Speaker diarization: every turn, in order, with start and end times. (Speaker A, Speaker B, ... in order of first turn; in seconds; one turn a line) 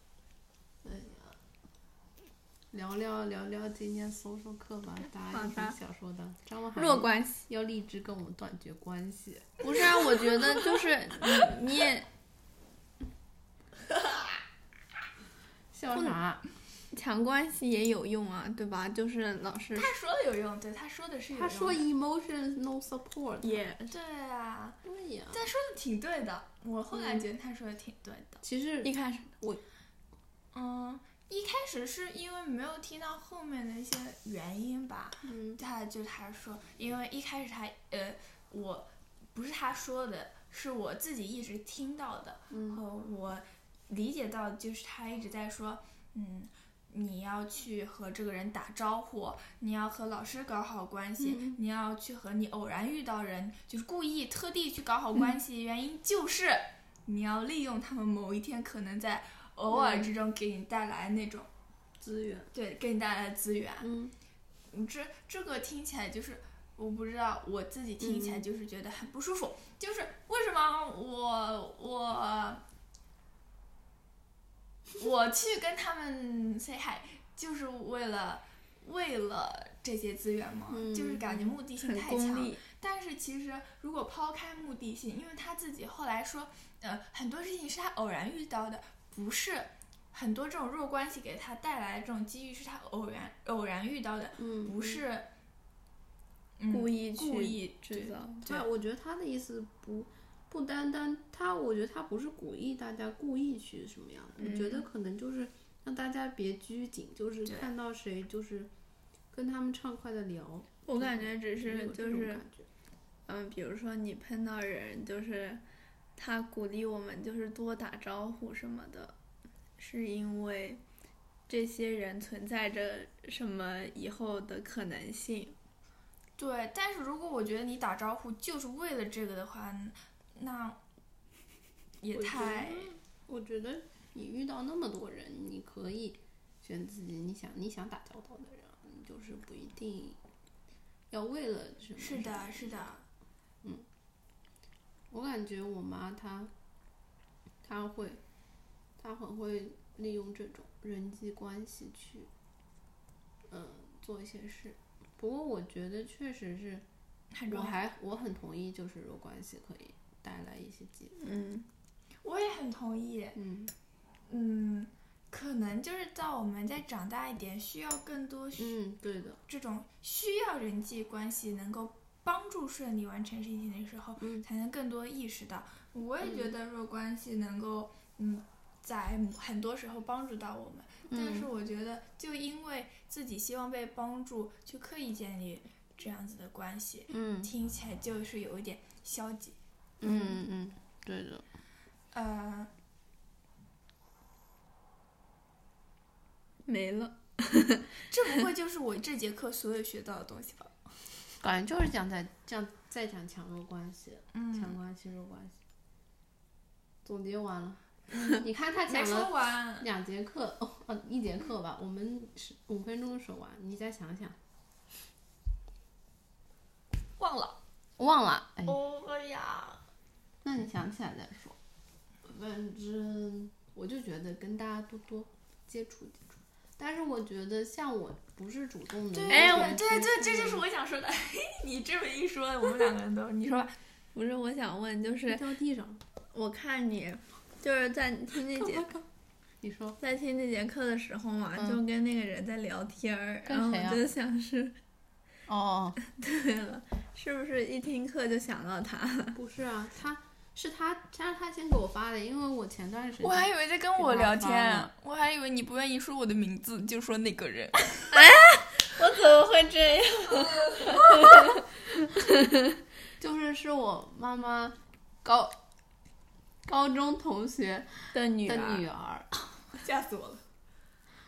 Speaker A: 0.8-1.4
Speaker A: 2.7-9.7
Speaker B: 5.2-5.8
Speaker B: 6.7-7.4
Speaker B: 9.6-12.1
Speaker C: 9.8-10.5
Speaker A: 15.7-16.4
Speaker B: 16.9-19.9
Speaker C: 19.7-21.8
Speaker A: 21.3-23.7
Speaker B: 23.4-23.9
Speaker C: 23.9-24.8
Speaker A: 24.8-25.4
Speaker C: 25.3-28.4
Speaker A: 26.9-27.2
Speaker A: 28.4-28.9
Speaker B: 28.8-29.5
Speaker C: 30.5-61.5
Speaker A: 35.2-35.6
Speaker A: 42.5-42.8
Speaker A: 51.2-51.6
Speaker A: 59.7-60.1
Speaker A: 62.0-62.5
Speaker C: 62.5-63.9
Speaker A: 63.8-64.1
Speaker C: 64.7-72.6
Speaker A: 68.0-68.5
Speaker C: 75.0-95.3
Speaker A: 80.7-81.5
Speaker B: 81.7-82.6
Speaker A: 94.4-95.0
Speaker C: 96.6-98.6
Speaker B: 96.7-98.5
Speaker A: 98.4-108.7
Speaker B: 104.4-104.8
Speaker C: 107.4-107.7
Speaker A: 109.3-112.7
Speaker B: 110.8-112.4
Speaker B: 113.3-115.6
Speaker B: 116.2-119.1
Speaker B: 119.8-120.8
Speaker B: 121.5-125.5
Speaker C: 126.4-130.8
Speaker C: 132.0-133.0
Speaker A: 132.1-140.2
Speaker A: 141.1-143.0
Speaker C: 142.0-143.0
Speaker A: 145.1-146.5
Speaker A: 147.6-148.2
Speaker A: 149.0-152.3
Speaker A: 153.5-156.8
Speaker C: 157.3-157.9
Speaker A: 157.5-161.2
Speaker B: 161.2-161.7
Speaker C: 162.2-163.4
Speaker A: 163.3-163.7
Speaker C: 164.3-168.8
Speaker A: 168.6-169.4
Speaker C: 169.4-190.3
Speaker A: 174.2-174.4
Speaker A: 176.2-176.5
Speaker A: 181.1-181.5
Speaker A: 187.1-187.5
Speaker A: 190.0-191.4
Speaker C: 192.1-192.7
Speaker B: 196.7-197.9
Speaker C: 198.1-200.9
Speaker A: 201.4-205.6
Speaker C: 204.3-204.8
Speaker A: 207.0-214.4
Speaker C: 208.1-209.9
Speaker C: 217.2-217.6
Speaker A: 218.0-218.8
Speaker C: 218.7-219.8
Speaker A: 220.4-221.6
Speaker A: 222.2-230.6
Speaker C: 229.1-233.8
Speaker B: 229.3-229.8
Speaker B: 234.1-235.4
Speaker A: 235.3-236.0
Speaker B: 236.3-238.9
Speaker A: 238.4-239.1
Speaker A: 239.6-240.0
Speaker B: 240.0-244.8
Speaker A: 241.5-241.8
Speaker A: 243.4-244.0
Speaker A: 245.5-246.0
Speaker B: 246.2-249.4
Speaker A: 249.3-254.9
Speaker C: 253.2-258.2
Speaker B: 258.1-261.6
Speaker C: 260.4-261.0
Speaker A: 263.2-265.6
Speaker A: 266.6-269.3
Speaker B: 268.1-268.9
Speaker C: 269.8-270.4